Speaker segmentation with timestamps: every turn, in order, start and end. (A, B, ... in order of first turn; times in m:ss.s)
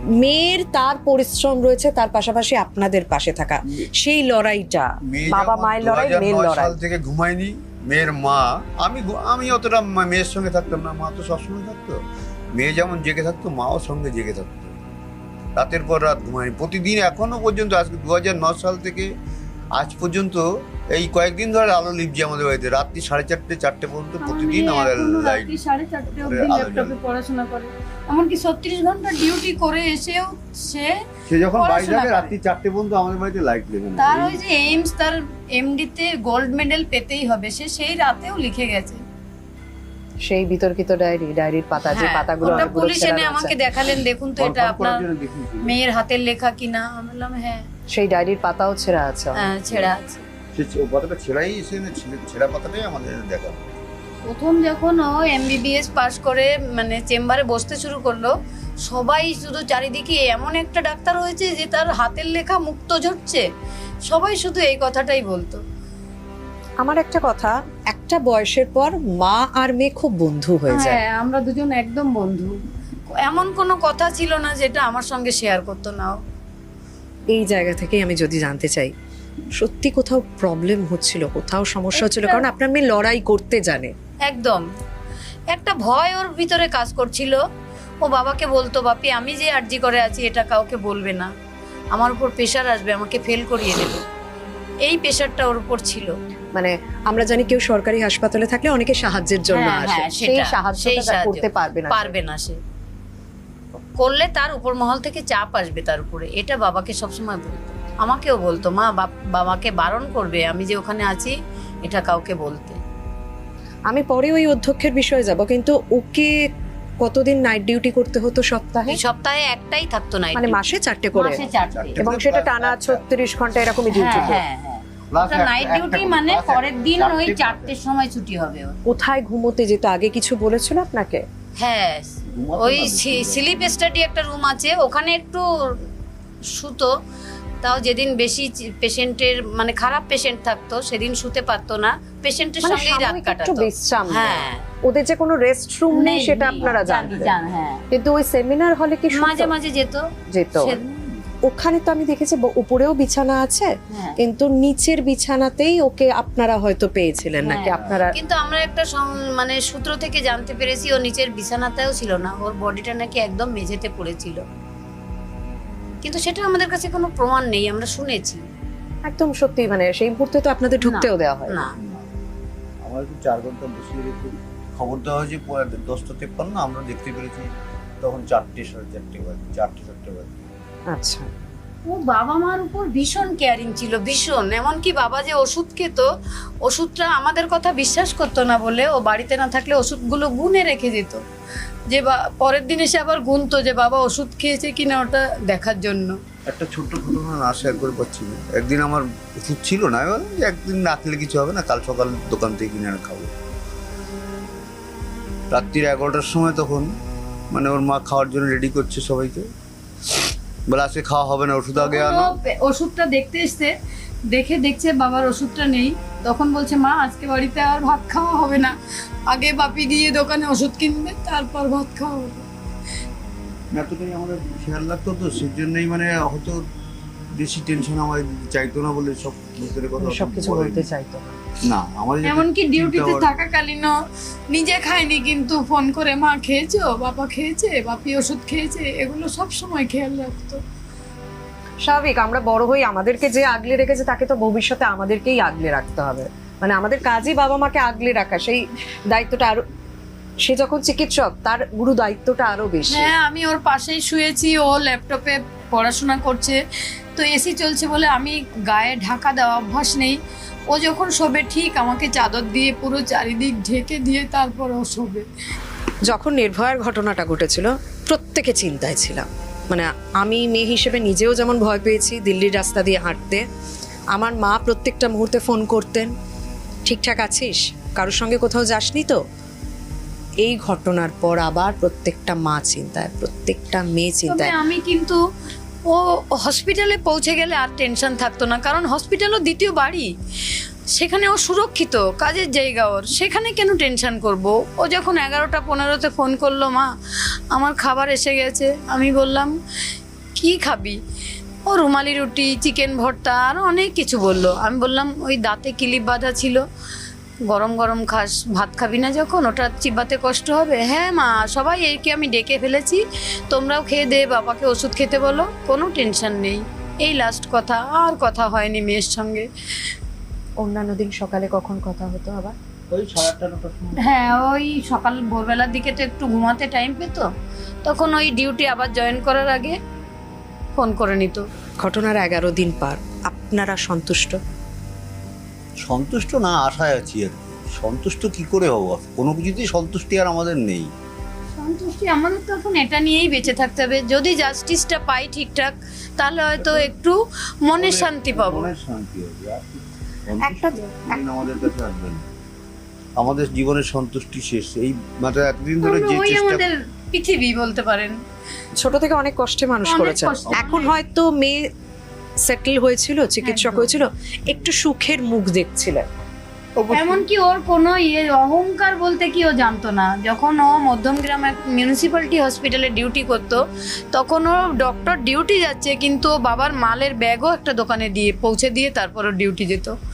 0:00.2-0:06.8 A
0:05.1-0:12.0 B
0:12.6-0:14.8 B
0:15.6-0:19.1 B
0:19.8-0:25.6 B
0:24.2-0:31.0 C
0:26.1-0:27.0 B
0:31.3-0:34.4 B
0:31.6-0:32.3 C
0:34.0-0:39.0 C
0:40.3-0:43.6 A
0:41.8-0:45.0 C
0:42.4-0:42.8 B
0:44.4-0:45.8 B
0:45.6-0:47.6 C
0:47.9-0:49.5 A
0:49.4-0:50.2 C
0:50.5-0:53.7 B
0:54.3-0:58.3 C
0:58.8-1:03.4 C
1:04.1-1:05.6 C
1:06.8-1:11.0 A
1:10.7-1:12.6 C
1:13.1-1:16.2 C
1:17.3-1:18.9 A
1:19.6-1:23.9 A
1:21.9-1:22.5 C
1:24.3-1:24.6 C
1:25.5-1:27.4 C
1:28.0-1:31.3 C
1:31.9-1:34.0 C
1:34.8-1:36.1 C
1:36.6-1:42.2 A
1:39.5-1:42.6 C
1:44.0-1:52.8 C
1:53.9-1:56.4 A
1:57.0-1:59.0 A
1:58.9-2:00.6 C
2:00.4-2:01.4 A
2:01.1-2:02.0 C
2:01.7-2:03.0 B
2:02.0-2:04.4 A
2:03.9-2:08.8 C
2:05.1-2:07.7 B
2:08.9-2:11.2 A
2:11.6-2:15.8 C
2:12.3-2:13.8 B
2:16.5-2:16.9 C
2:17.6-2:24.6 C
2:22.6-2:27.3 A
2:25.9-2:27.8 C
2:27.9-2:29.5 A
2:29.1-2:30.8 C
2:30.3-2:30.8 A
2:30.9-2:31.3 B
2:31.4-2:38.2 A
2:33.9-2:34.2 C
2:37.4-2:44.4 C
2:37.7-2:38.0 B
2:46.0-2:48.4 C
2:49.1-2:51.6 A
2:50.8-2:51.8 C
2:51.8-2:52.1 B
2:52.8-3:00.5 B
3:00.9-3:01.3 A
3:01.9-3:06.1 C
3:06.6-3:11.2 C
3:11.9-3:16.2 C
3:16.5-3:23.3 B
3:25.5-3:26.9 B
3:27.5-3:29.5 B
3:30.7-3:32.4 B
3:31.8-3:33.8 C
3:34.3-3:38.8 C
3:39.3-3:42.5 C
3:43.7-3:46.6 B
3:47.3-3:50.9 B
3:50.0-3:51.4 A
3:51.6-3:53.3 B
3:52.2-3:54.0 C
3:54.5-4:00.6 C
4:01.8-4:09.6 A
4:10.4-4:13.1 A
4:12.9-4:16.6 C
4:17.2-4:20.2 C
4:20.7-4:25.3 C
4:26.1-4:33.4 A
4:34.1-4:36.1 A
4:36.9-4:39.2 A
4:40.4-4:44.6 A
4:44.3-4:45.2 C
4:45.9-4:50.1 C
4:51.0-4:56.9 C
4:57.5-4:59.6 C
5:00.4-5:01.0 C
5:01.7-5:06.6 C
5:07.5-5:19.5 C
5:20.6-5:22.6 A
5:22.9-5:24.0 B
5:24.0-5:27.3 C
5:27.8-5:29.8 C
5:30.8-5:31.4 C
5:31.8-5:34.4 A
5:35.8-5:40.9 B
5:41.6-5:48.7 C
5:46.6-5:46.9 B
5:47.8-5:52.2 B
5:50.4-5:51.2 A
5:53.2-5:56.6 B
5:55.8-5:58.2 C
5:58.8-6:01.6 A
5:59.9-6:00.9 C
6:00.5-6:00.8 B
6:02.4-6:06.1 A
6:03.4-6:03.9 C
6:06.8-6:07.1 B
6:06.9-6:20.0 C